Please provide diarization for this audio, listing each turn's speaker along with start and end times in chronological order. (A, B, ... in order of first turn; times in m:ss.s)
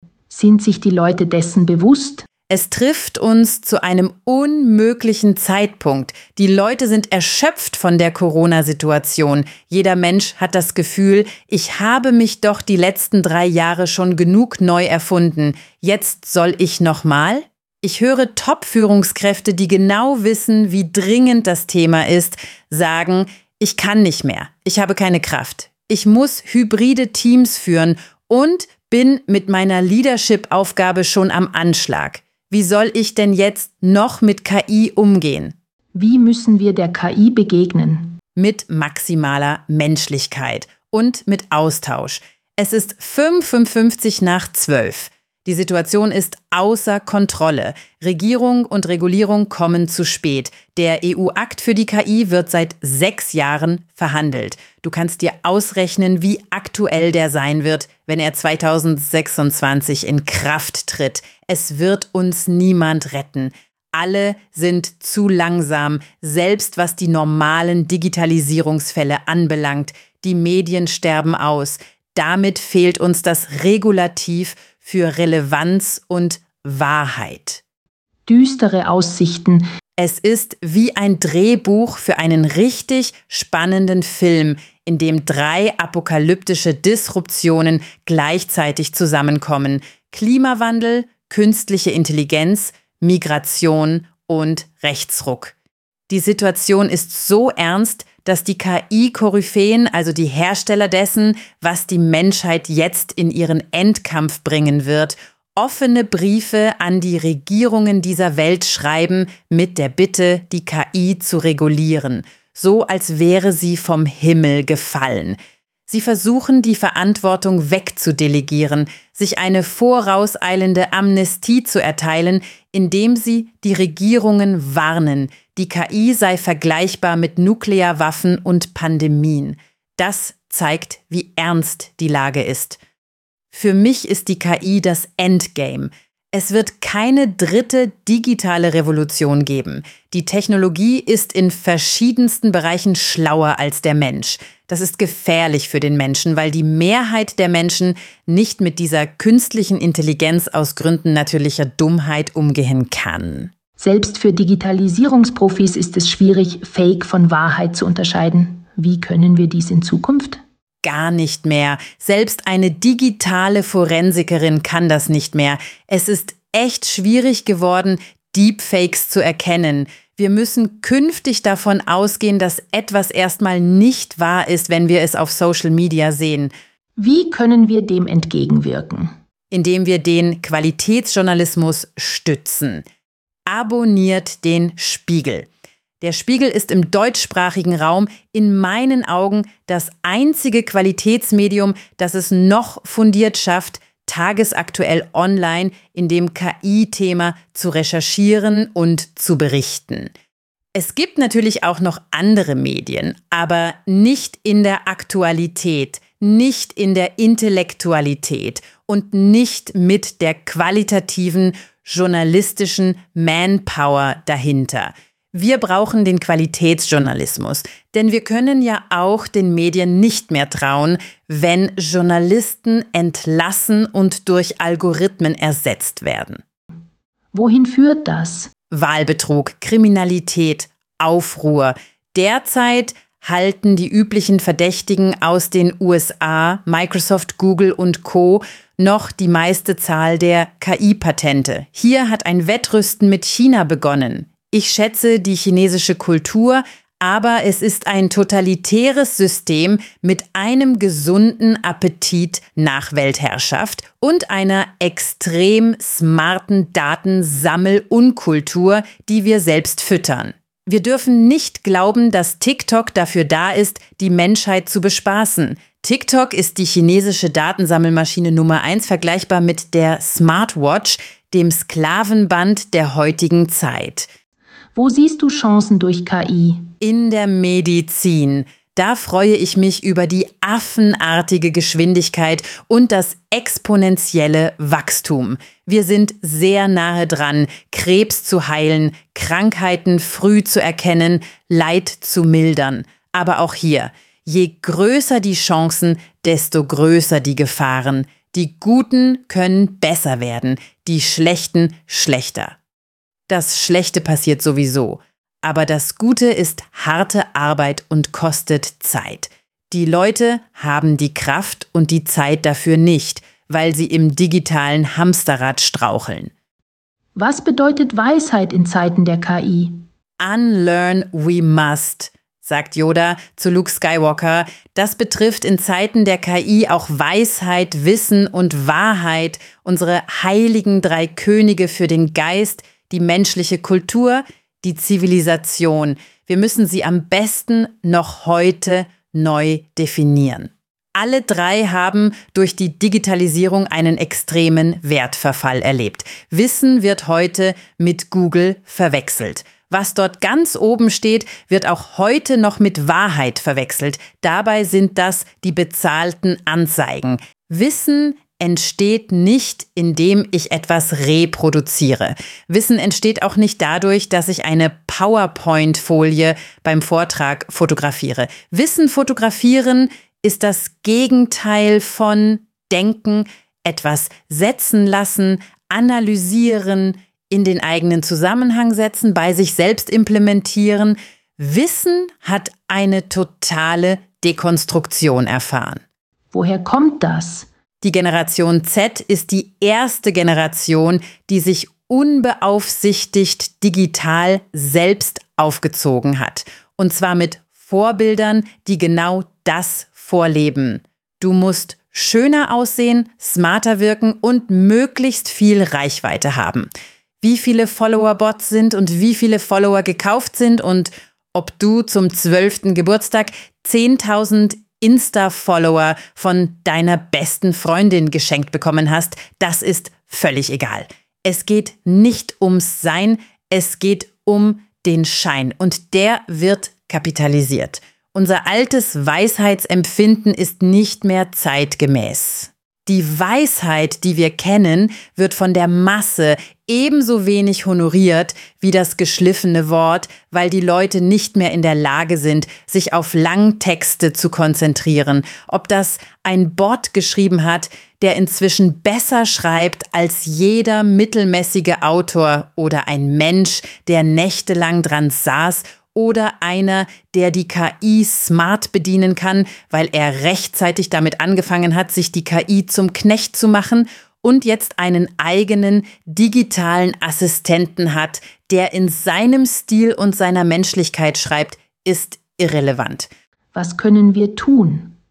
0:00.3-0:02.3 A
0:02.5-0:35.5 B
0:35.9-0:38.2 A
0:38.4-1:17.6 B
1:18.3-1:19.6 A
1:20.0-1:35.5 B
1:36.1-2:12.8 B
2:13.5-2:33.5 B
2:33.8-2:40.4 A
2:40.8-2:56.5 B
2:57.0-2:59.1 A
2:59.5-3:02.8 B
3:03.5-3:05.5 B
3:06.0-3:20.1 B
3:20.7-3:46.4 B
3:47.3-3:48.5 A
3:48.7-4:34.1 B
4:34.7-4:36.7 A
4:36.8-5:02.6 B
5:03.3-5:16.3 B
5:17.2-5:19.8 A
5:20.2-6:25.8 B
6:26.3-6:27.5 A
6:27.8-6:46.7 B
6:47.2-7:53.1 B
7:53.5-7:55.0 A